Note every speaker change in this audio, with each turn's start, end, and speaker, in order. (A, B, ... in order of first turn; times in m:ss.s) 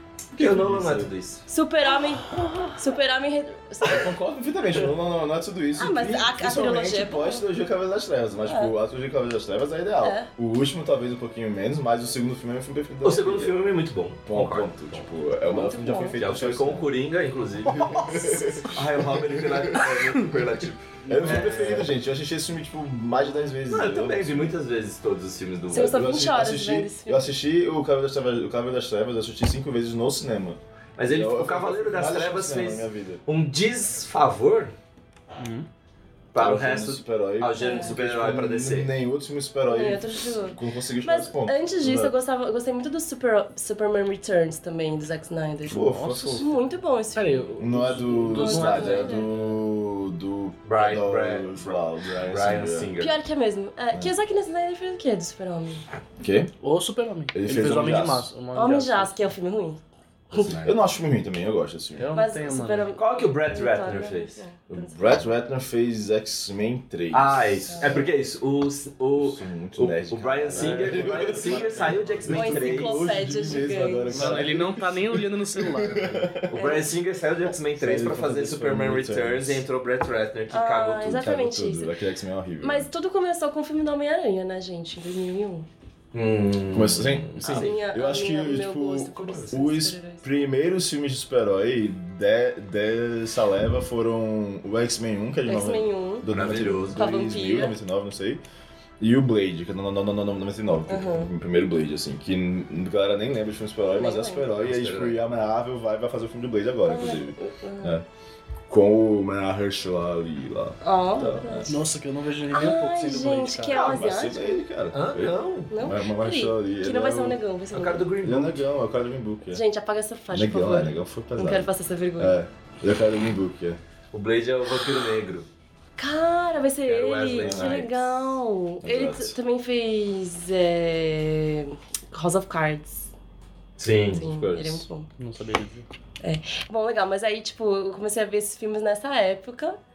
0:00.3-0:01.1 A
0:00.4-0:01.4 B
0:01.5-0:04.1 C
0:03.8-0:13.6 A
0:05.8-0:07.4 C
0:08.5-0:08.7 C
0:10.0-0:10.3 C
0:13.0-0:15.0 B
0:14.3-0:16.9 A
0:15.5-0:16.2 C
0:16.2-0:18.1 B
0:17.9-0:19.9 A
0:18.7-0:21.9 B
0:21.0-0:21.9 D
0:21.1-0:24.5 A
0:23.7-0:26.0 B
0:25.7-0:27.2 C
0:25.7-0:33.2 A
0:31.0-0:34.7 B
0:35.4-0:35.7 D
0:36.3-0:38.9 B
0:36.4-0:42.1 A
0:37.6-0:37.9 C
0:39.7-0:45.8 C
0:45.6-0:46.4 A
0:45.7-0:46.6 D
0:46.4-0:47.5 C
0:47.1-0:49.6 D
0:47.6-0:52.9 A
0:48.3-0:49.3 C
0:50.6-0:53.2 B
0:53.0-0:55.8 C
0:56.2-0:56.5 A
0:56.6-0:59.1 D
0:57.3-0:58.3 A
0:58.5-0:59.8 C
1:00.3-1:00.6 D
1:00.3-1:00.8 B
1:00.6-1:02.1 A
1:02.0-1:02.9 D
1:02.1-1:05.0 C
1:03.0-1:04.4 B
1:04.7-1:07.9 A
1:07.1-1:13.1 B
1:07.7-1:08.1 C
1:09.1-1:16.6 A
1:10.5-1:11.6 D
1:12.3-1:14.4 C
1:14.1-1:16.3 D
1:16.5-1:21.1 B
1:16.5-1:16.9 C
1:17.8-1:19.6 A
1:20.5-1:22.0 C
1:21.0-1:22.9 A
1:22.6-1:25.7 C
1:26.1-1:27.8 B
1:26.7-1:38.4 A
1:27.4-1:30.2 C
1:29.1-1:29.6 B
1:35.5-1:36.3 C
1:36.3-1:37.1 B
1:36.9-1:37.8 C
1:39.0-1:48.1 A
1:40.9-1:41.3 C
1:44.0-1:44.4 C
1:44.5-1:45.2 B
1:46.9-1:48.0 C
1:48.7-1:51.8 A
1:50.8-1:51.8 C
1:51.7-1:53.9 D
1:52.5-1:54.6 C
1:53.7-1:57.4 A
1:54.9-1:55.7 B
1:55.7-1:58.1 C
1:57.7-1:58.7 B
1:58.2-1:59.6 A
1:59.5-2:02.4 C
2:00.3-2:03.8 A
2:04.1-2:05.5 B
2:06.0-2:13.1 C
2:06.8-2:08.0 B
2:07.4-2:08.1 A
2:08.8-2:09.4 A
2:13.8-2:14.2 B
2:14.1-2:14.9 A
2:14.2-2:15.1 C
2:15.2-2:15.9 D
2:16.2-2:19.8 C